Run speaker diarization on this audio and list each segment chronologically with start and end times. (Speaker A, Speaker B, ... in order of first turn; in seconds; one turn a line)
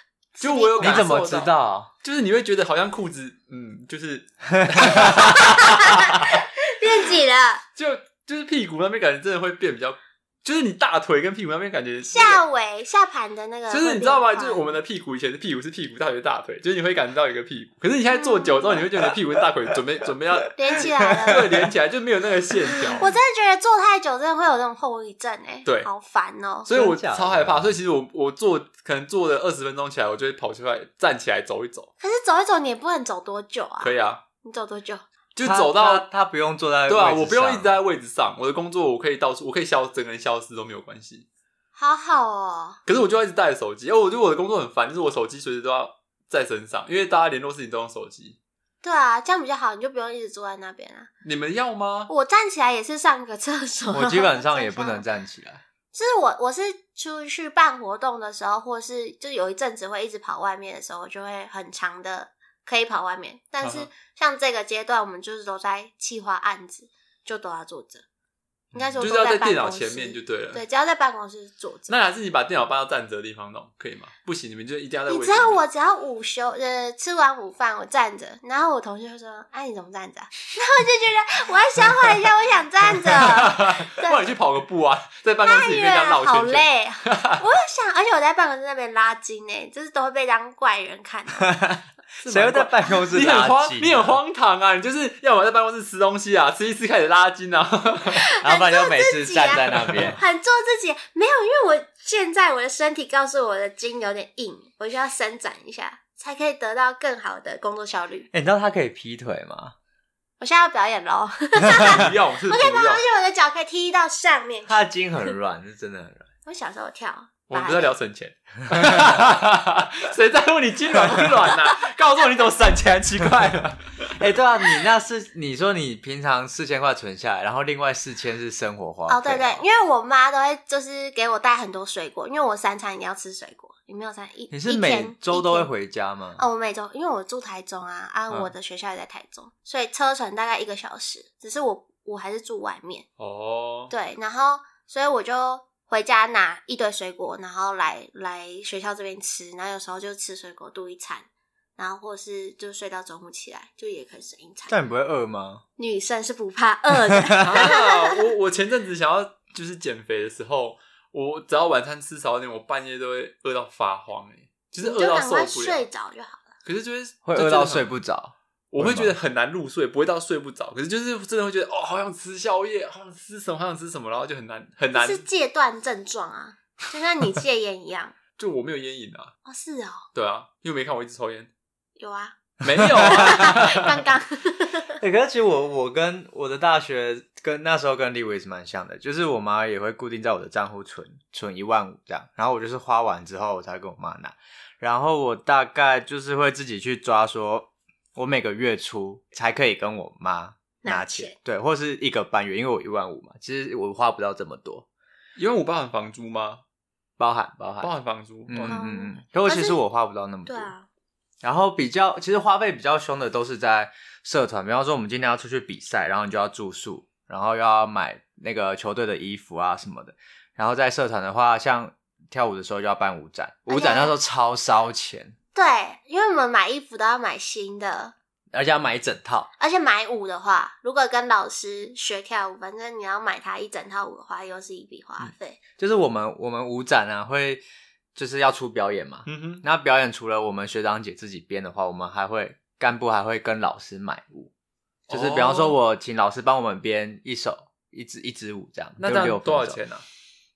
Speaker A: 0.4-1.1
Speaker B: 0.4-1.5
Speaker C: 0.8-1.9
Speaker B: 2.0-6.4
Speaker A: 5.0-7.6
Speaker B: 7.8-12.4
Speaker A: 12.1-14.8
Speaker B: 13.7-23.1
Speaker A: 18.1-18.9
Speaker A: 20.6-21.5
Speaker C: 20.8-21.4
Speaker A: 23.0-26.7
Speaker B: 26.6-31.9
Speaker C: 26.7-27.7
Speaker A: 32.0-35.0
Speaker B: 33.8-34.2
Speaker B: 35.3-36.1
Speaker C: 35.4-37.8
Speaker B: 36.9-41.2
Speaker A: 41.8-42.8
Speaker B: 42.8-48.4
Speaker A: 48.8-51.1
Speaker B: 51.2-52.1
Speaker A: 52.1-55.0
Speaker C: 53.9-55.6
Speaker A: 55.9-68.0
Speaker B: 63.6-63.9
Speaker A: 68.7-71.9
Speaker B: 69.0-70.6
Speaker B: 71.9-75.6
Speaker A: 75.1-84.2
Speaker B: 83.2-87.4
Speaker A: 85.4-91.5
Speaker C: 91.4-94.2
Speaker B: 92.2-98.3
Speaker A: 98.2-108.3
Speaker C: 98.4-100.2
Speaker C: 108.3-109.7
Speaker A: 110.4-114.7
Speaker B: 111.7-113.0
Speaker C: 114.7-116.2
Speaker A: 116.5-117.9
Speaker B: 117.5-124.1
Speaker C: 118.7-119.1
Speaker C: 124.2-129.6
Speaker A: 129.1-135.7
Speaker C: 134.5-136.4
Speaker A: 136.4-143.1
Speaker B: 143.2-143.9
Speaker A: 143.9-151.3
Speaker A: 151.8-154.7
Speaker C: 154.7-155.6
Speaker A: 155.8-158.2
Speaker C: 156.9-157.7
Speaker B: 157.4-165.8
Speaker A: 164.8-166.5
Speaker B: 166.6-167.9
Speaker C: 167.2-169.1
Speaker B: 168.7-175.2
Speaker A: 174.9-178.1
Speaker B: 178.4-179.3
Speaker A: 179.4-180.1
Speaker B: 180.1-181.5
Speaker A: 182.0-182.3
Speaker B: 182.6-184.0
Speaker C: 182.8-183.6
Speaker A: 182.9-185.0
Speaker C: 185.0-204.8
Speaker A: 200.8-201.3
Speaker B: 205.4-206.6
Speaker C: 207.2-207.9
Speaker B: 207.8-208.8
Speaker C: 208.5-210.7
Speaker A: 208.7-209.8
Speaker A: 210.4-210.8
Speaker C: 211.4-225.3
Speaker A: 223.7-224.1
Speaker A: 225.5-228.1
Speaker C: 228.5-229.5
Speaker A: 229.6-235.6
Speaker C: 235.2-237.6
Speaker C: 238.1-244.5
Speaker B: 239.2-239.6
Speaker B: 245.1-245.8
Speaker C: 245.1-249.8
Speaker B: 249.0-250.0